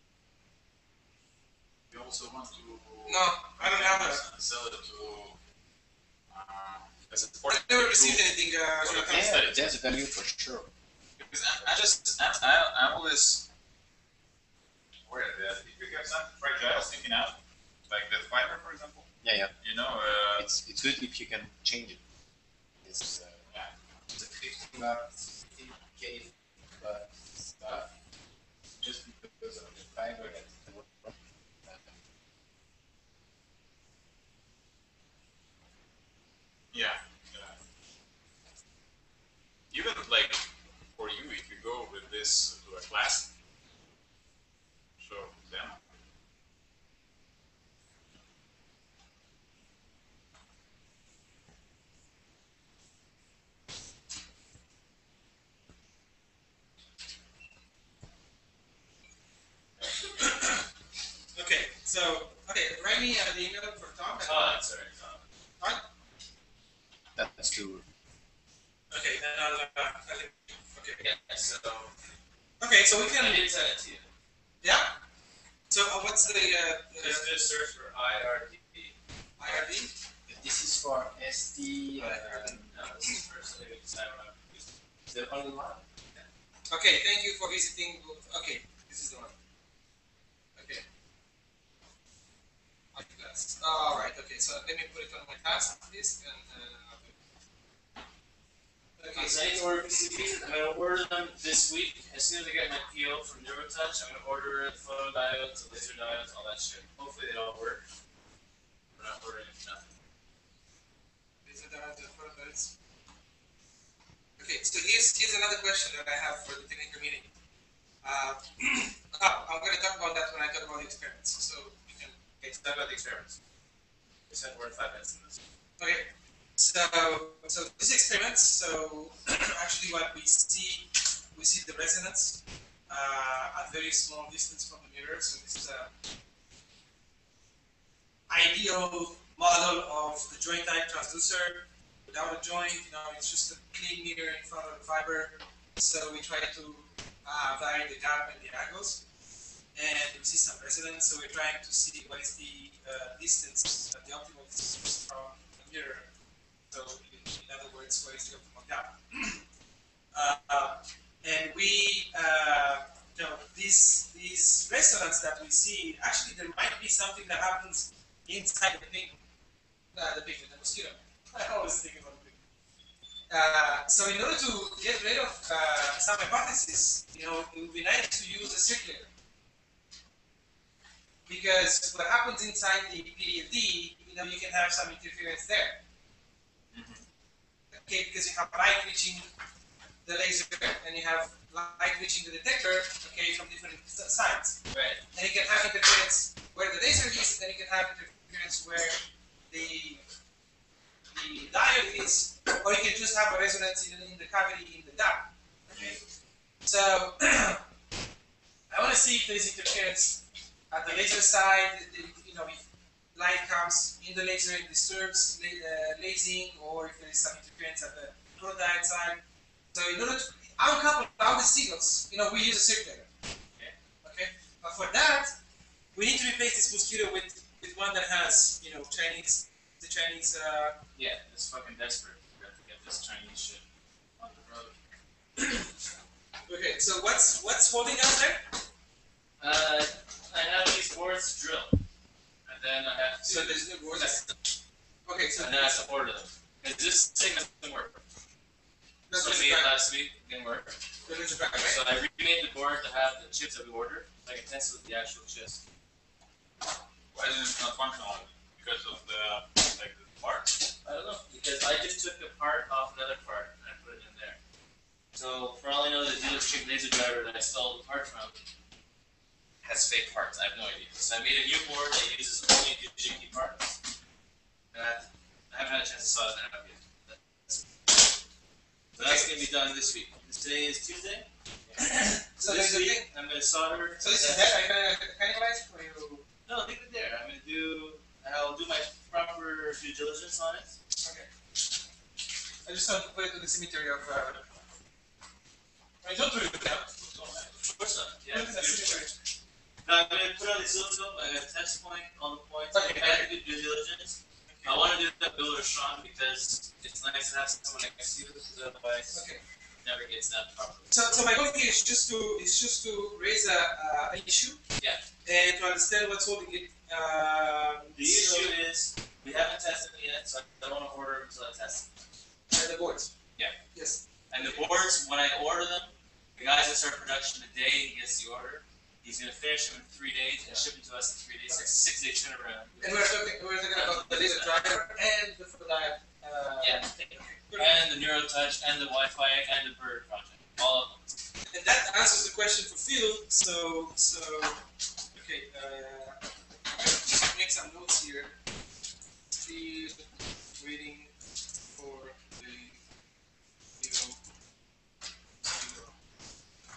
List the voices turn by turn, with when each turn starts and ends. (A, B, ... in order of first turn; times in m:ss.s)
0:01.9-0:05.4 A
0:03.1-0:04.2 B
0:06.3-0:09.9 A
0:07.5-0:09.4 B
0:08.9-0:10.7 C
0:11.2-0:13.4 A
0:15.0-0:17.4 A
0:17.9-0:19.1 A
0:19.2-0:19.5 C
0:19.6-0:20.5 A
0:20.4-0:22.0 C
0:22.8-0:23.5 C
0:24.1-0:27.9 C
0:28.8-0:32.0 C
0:36.7-0:37.6 A
0:39.7-0:40.4 A
0:41.0-0:43.3 A
0:45.0-0:45.8 A
1:00.2-1:00.6 B
1:01.3-1:04.6 B
1:04.2-1:05.2 D
1:07.1-1:07.8 C
1:08.9-1:11.0 B
1:11.0-1:11.9 D
1:12.6-1:13.4 B
1:12.9-1:14.1 D
1:14.6-1:14.9 B
1:15.7-1:17.4 B
1:17.0-1:18.9 D
1:19.4-1:19.9 B
1:20.2-1:22.6 C
1:22.0-1:24.6 D
1:25.1-1:25.8 C
1:26.7-1:29.4 B
1:30.6-1:30.8 B
1:32.9-1:37.1 B
1:39.0-1:40.0 B
1:39.1-1:47.8 D
1:49.0-1:49.9 D
1:51.4-1:52.7 B
1:54.4-1:57.3 B
1:58.0-2:02.2 B
2:02.4-2:03.4 D
2:04.3-2:05.4 D
2:05.8-2:15.9 B
2:18.3-2:29.0 B
2:29.7-2:36.1 B
2:36.7-2:39.4 B
2:40.1-2:49.2 B
2:49.9-2:52.4 B
2:53.3-2:59.1 B
3:01.2-3:05.8 B
3:07.7-3:09.3 B
3:10.0-3:14.6 B
3:14.7-3:15.0 D
3:15.1-3:20.0 B
3:21.1-3:26.0 B
3:26.6-3:27.6 B
3:28.7-3:30.2 B
3:30.7-3:32.6 B
3:33.1-3:43.1 B
3:44.0-3:45.3 B
3:45.9-3:50.8 B
3:50.9-3:53.6 D
3:54.2-3:54.7 D
3:56.5-3:58.5 B
3:59.4-4:01.8 D
4:02.5-4:04.4 D
4:03.2-4:04.2 B
4:05.0-4:05.9 B
4:05.4-4:08.0 D
4:09.1-4:09.7 B
4:09.1-4:10.8 D
4:11.0-4:11.8 B
4:11.5-4:15.6 D
4:17.1-4:20.6 A
4:20.8-4:24.4 D
4:25.1-4:28.4 D
4:29.6-4:33.7 D
4:34.7-4:37.5 D
4:39.0-4:44.6 D
4:39.0-4:39.4 B
4:41.8-4:43.0 B
4:44.0-4:46.2 B
4:46.5-4:50.7 D
4:51.0-4:51.3 B
4:52.6-4:54.4 B
4:56.0-4:56.9 B
4:56.9-4:57.6 A
4:57.6-4:59.0 D
4:58.3-4:59.2 B
4:59.8-5:09.2 D
5:02.7-5:03.3 B
5:04.5-5:04.8 B
5:09.1-5:09.4 B
5:09.8-5:11.1 D
5:10.9-5:14.6 B
5:15.2-5:18.5 B
5:17.9-5:21.9 D
5:22.5-5:23.1 B
5:23.7-5:24.8 B
5:24.3-5:33.2 D
5:32.8-5:37.9 B
5:33.7-5:34.6 D
5:36.6-5:41.1 D
5:41.5-5:44.6 B
5:45.1-5:46.2 B
5:46.8-5:48.4 B
5:49.4-5:50.0 B
5:50.6-5:51.1 B
5:51.7-5:52.8 B
5:53.8-5:54.2 B
5:55.4-5:55.9 B